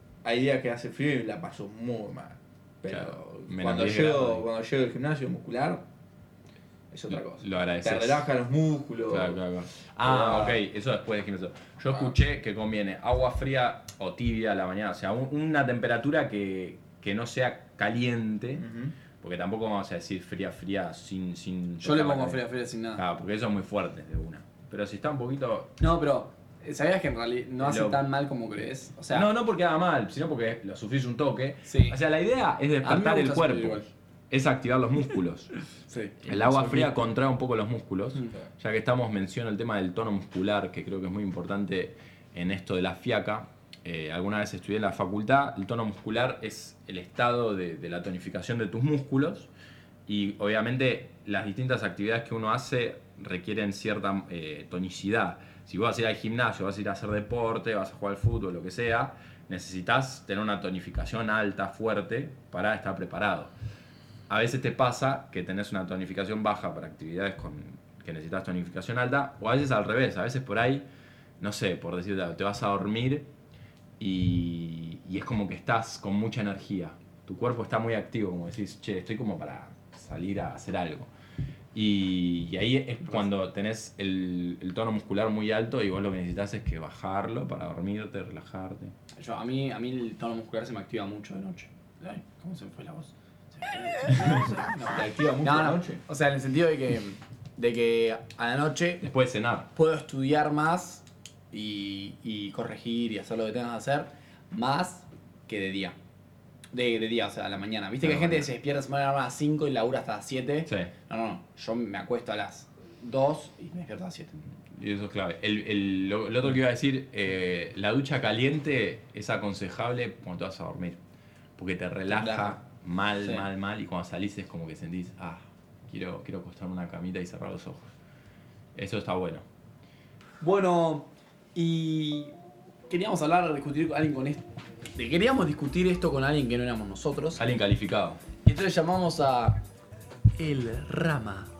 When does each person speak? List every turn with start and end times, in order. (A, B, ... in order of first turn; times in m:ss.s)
0:00.2-0:05.8 A
0:02.9-0:04.4 B
0:06.9-0:09.4 A
0:07.1-0:08.2 B
0:09.1-0:18.6 B
0:10.0-0:10.6 A
0:18.6-0:18.9 A
0:19.2-0:25.8 B
0:21.8-0:23.0 C
0:25.8-0:29.3 C
0:27.6-0:28.0 B
0:29.1-0:35.5 B
0:31.6-0:32.0 C
0:32.8-0:33.9 C
0:35.9-0:37.0 C
0:36.2-0:49.5 B
0:50.0-1:03.5 B
1:04.3-1:10.8 B
1:11.4-1:13.3 B
1:14.0-1:21.1 B
1:21.7-1:28.9 B
1:29.2-1:39.0 C
1:34.9-1:36.0 A
1:39.0-1:39.7 B
1:39.7-1:46.0 C
1:46.7-1:54.4 C
1:48.0-1:48.5 B
1:50.6-1:50.9 B
1:54.7-2:01.0 B
2:01.6-2:07.9 B
2:02.1-2:02.6 C
2:08.7-2:09.4 B
2:10.4-2:12.3 C
2:12.9-2:17.4 C
2:17.3-2:18.2 B
2:18.4-2:19.6 C
2:20.3-2:21.5 C